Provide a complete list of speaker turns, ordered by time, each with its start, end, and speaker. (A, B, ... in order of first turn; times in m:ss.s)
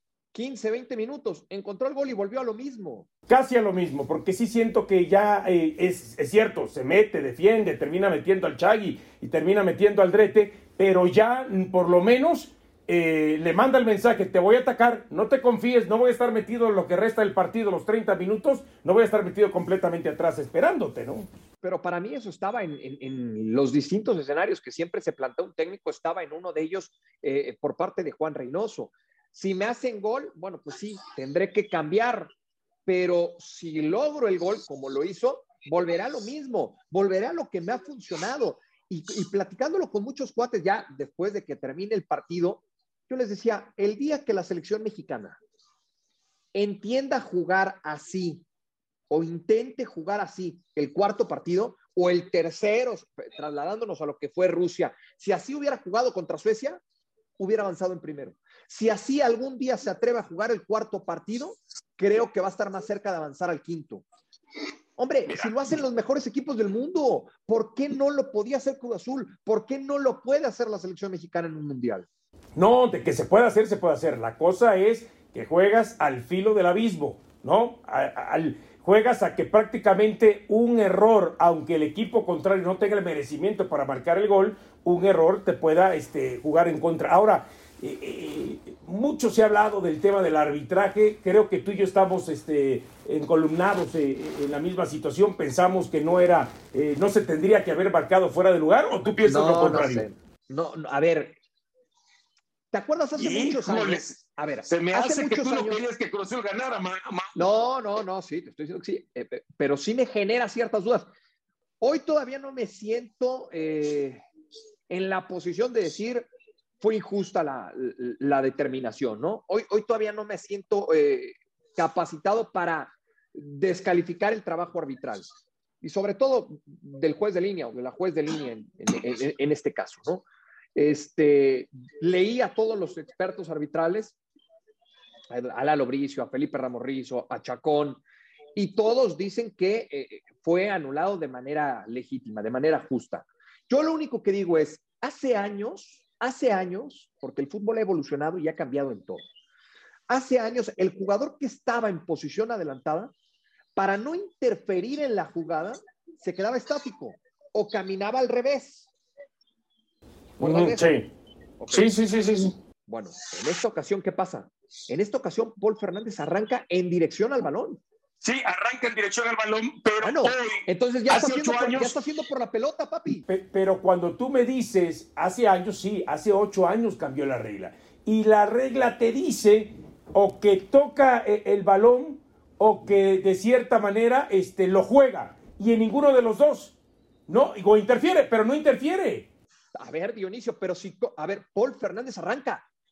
0:00.3-0:03.1 A
0:03.3-0:21.3 B
0:21.6-0:32.3 A
0:32.9-0:45.4 A
0:46.5-0:48.4 A
0:49.1-0:56.8 A
0:57.4-1:04.0 A
1:05.0-1:12.1 A
1:12.6-1:40.0 B
1:39.2-1:41.4 A
1:42.7-1:45.8 A
1:43.2-1:47.5 C
1:47.4-1:51.1 A
1:51.8-1:54.2 A
1:54.9-1:56.3 A
1:56.8-2:05.3 A
2:05.8-2:10.2 A
2:10.8-2:14.2 A
2:15.3-2:18.0 A
2:18.6-2:29.2 A
2:30.1-2:33.1 A
2:33.8-2:38.9 A
2:40.4-2:41.0 A
2:40.4-2:41.1 B
2:41.6-2:41.9 A
2:41.7-2:42.5 B
2:42.9-2:47.8 A
2:48.2-2:52.0 C
2:50.0-2:53.3 A
2:53.3-3:06.8 B
3:07.3-3:09.3 B
3:09.8-3:12.6 A